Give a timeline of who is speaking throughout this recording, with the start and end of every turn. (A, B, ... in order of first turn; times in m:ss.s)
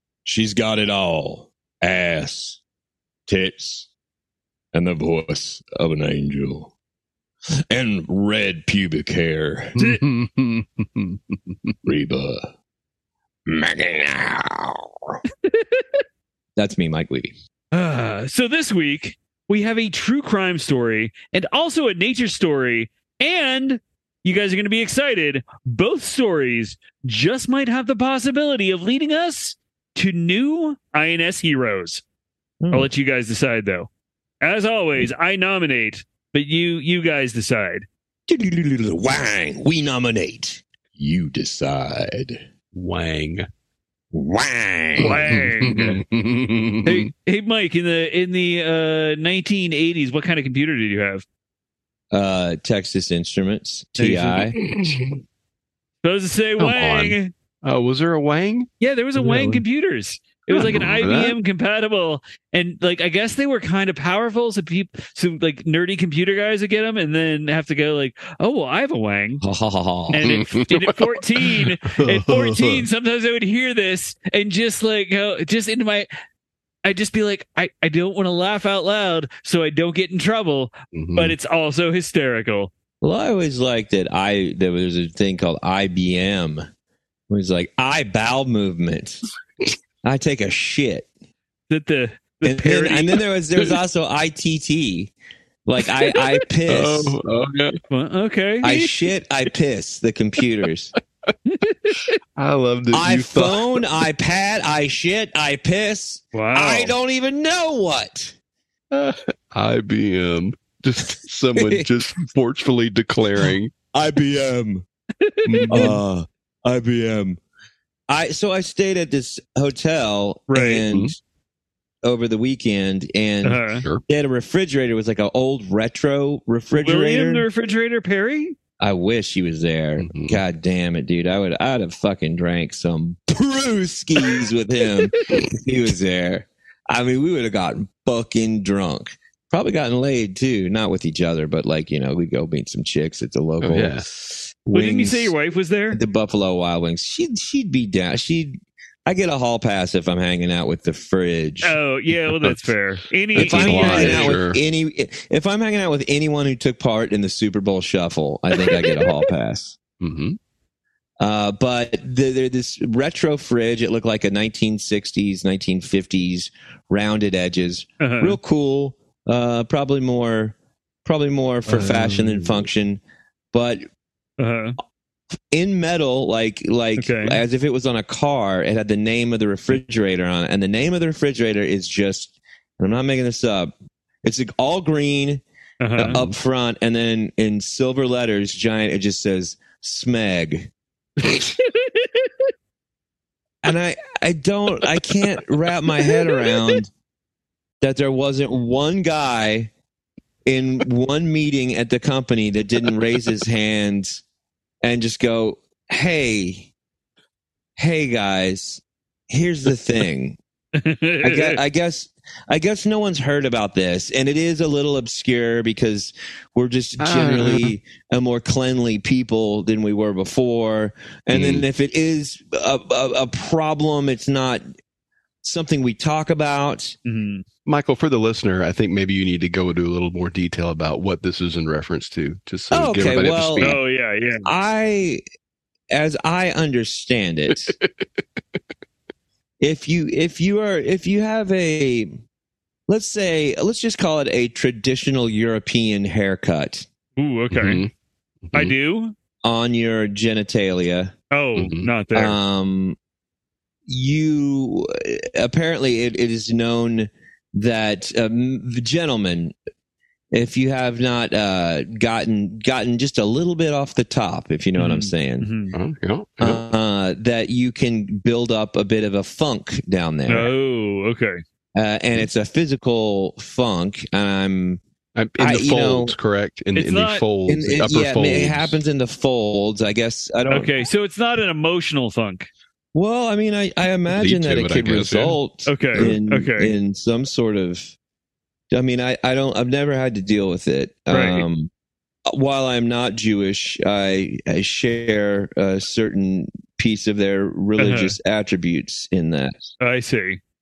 0:00.3-0:02.6 A
0:03.3-0:03.9 A
0:04.7-0:06.7 A
0:07.7-0:09.7 A
0:09.8-0:11.7 B
0:11.8-0:12.4 A
0:13.5-0:14.6 A
0:15.4-0:16.0 C
0:16.6-0:17.3 A
0:17.7-0:32.0 C
0:32.6-0:32.9 A
0:32.7-0:33.9 C
0:34.4-0:37.9 C
0:38.3-0:42.3 A
0:42.7-0:43.4 B
0:44.1-0:45.1 A
0:45.0-0:46.0 C
0:45.0-0:47.1 B
0:46.8-0:51.2 C
0:52.1-0:54.6 A
0:54.0-0:54.5 C
0:54.5-0:55.2 B
0:56.0-0:57.3 C
0:56.6-0:59.6 B
0:58.8-1:09.4 C
1:00.5-1:01.4 B
1:09.4-1:10.2 A
1:10.1-1:16.1 C
1:10.2-1:12.8 B
1:16.8-1:22.7 C
1:20.9-1:21.3 B
1:23.0-1:26.6 A
1:27.3-1:29.2 A
1:30.0-1:31.1 A
1:31.7-1:33.2 C
1:32.4-1:35.1 A
1:35.6-1:37.2 A
1:36.7-1:37.8 B
1:37.9-1:38.8 C
1:38.6-1:40.9 A
1:41.4-1:42.2 C
1:42.4-1:43.8 B
1:42.9-1:48.3 A
1:46.3-1:46.9 C
1:48.9-1:53.7 B
1:51.5-1:51.9 A
1:53.9-1:54.8 A
1:55.2-1:55.9 C
1:55.4-1:56.0 B
1:55.7-1:57.4 A
1:58.1-2:01.2 A
2:00.5-2:00.8 C
2:02.0-2:07.4 A
2:03.4-2:03.8 C
2:06.7-2:08.6 C
2:08.8-2:24.0 A
2:10.0-2:10.4 B
2:23.6-2:24.0 B
2:24.6-2:25.3 A
2:24.7-2:26.0 C
2:25.9-2:31.8 A
2:31.6-2:34.4 C
2:33.3-2:34.6 B
2:33.3-2:39.8 A
2:38.6-2:39.2 C
2:40.0-2:40.4 B
2:41.2-2:53.0 A
2:48.0-2:48.4 C
2:51.7-2:52.5 B
2:53.5-2:53.8 A
2:54.4-2:54.8 C
2:55.5-3:03.7 A
2:57.0-2:57.4 C
3:04.2-3:05.4 A
3:05.8-3:06.2 C
3:06.0-3:10.7 A
3:11.3-3:12.3 C
3:13.6-3:16.9 A
3:16.0-3:16.7 C
3:17.8-3:19.7 A
3:20.4-3:24.2 A
3:24.8-3:26.7 A
3:27.8-3:30.4 A
3:30.8-3:31.6 C
3:31.2-3:44.6 A
3:37.0-3:37.7 B
3:41.3-3:41.6 B
3:45.4-3:47.0 A
3:47.0-3:47.4 C
3:47.6-3:53.8 B
3:52.7-3:53.8 A
3:53.6-3:54.4 C
3:54.4-3:55.2 A
3:55.9-3:57.7 A
3:59.6-4:02.1 A
4:02.9-4:06.8 A
4:07.2-4:07.8 C
4:07.5-4:07.9 B
4:08.5-4:09.1 C
4:09.4-4:11.1 A
4:11.3-4:12.4 C
4:11.6-4:11.9 B
4:12.1-4:13.0 A
4:13.9-4:19.5 A
4:20.3-4:25.5 A
4:24.8-4:25.7 C
4:25.7-4:26.6 B
4:26.4-4:30.5 A
4:30.3-4:31.4 C
4:31.7-4:34.8 A
4:35.2-4:38.8 B
4:35.4-4:36.1 A
4:36.7-4:37.2 C
4:37.5-4:40.8 A
4:40.5-4:42.5 C
4:42.9-4:47.9 A
4:44.1-4:45.4 B
4:45.6-4:46.7 C
4:48.7-4:51.7 A
4:51.1-4:51.4 C
4:52.3-4:59.7 A
4:57.8-4:58.1 C
4:59.8-5:00.4 C